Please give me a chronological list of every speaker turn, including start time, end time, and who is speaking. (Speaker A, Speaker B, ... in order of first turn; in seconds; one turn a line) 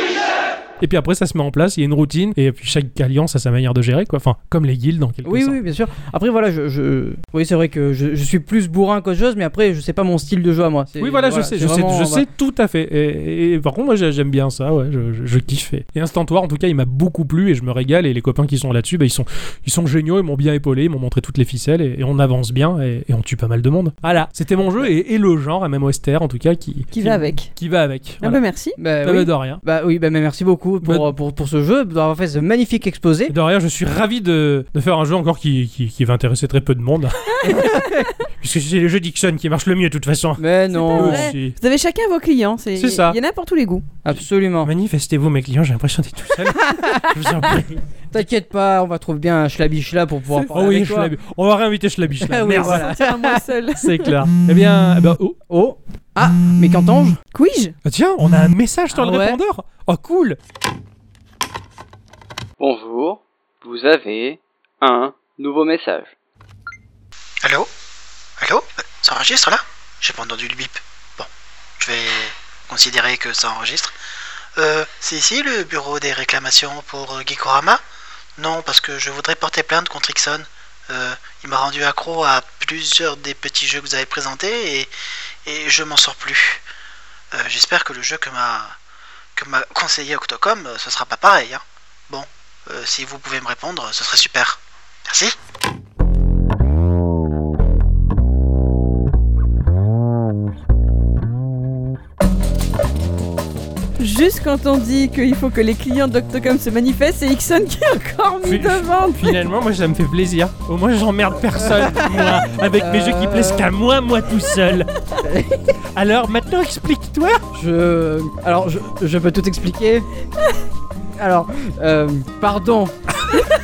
Speaker A: 0.8-5.6
Speaker B: 5.2-12.3
Speaker A: 11.0-28.4
Speaker C: 26.9-27.5
Speaker C: 28.2-28.8
Speaker B: 28.8-33.4
Speaker A: 29.0-29.6
Speaker A: 30.8-31.1
Speaker A: 33.3-37.7
Speaker C: 37.4-37.8
Speaker B: 37.5-38.0
Speaker A: 38.4-41.6
Speaker B: 40.4-41.3
Speaker C: 40.7-43.9
Speaker A: 42.8-43.2
Speaker B: 44.0-44.7
Speaker A: 44.6-48.2
Speaker B: 46.5-47.6
Speaker B: 48.1-51.1
Speaker A: 50.5-53.0
Speaker B: 52.2-53.4
Speaker C: 52.6-54.1
Speaker A: 53.8-55.4
Speaker B: 55.5-57.2
Speaker C: 57.3-57.8
Speaker A: 57.9-60.4
Speaker B: 58.9-59.4
Speaker D: 62.6-66.1
Speaker E: 67.4-67.7
Speaker E: 68.4-74.0
Speaker E: 74.6-77.8
Speaker E: 78.4-84.9
Speaker E: 85.5-86.6
Speaker E: 87.3-88.7
Speaker E: 89.4-95.3
Speaker C: 104.0-109.4
Speaker A: 108.4-114.9
Speaker B: 111.6-113.7
Speaker B: 115.2-115.8
Speaker A: 115.9-117.4
Speaker B: 117.5-120.1
Speaker B: 121.2-123.0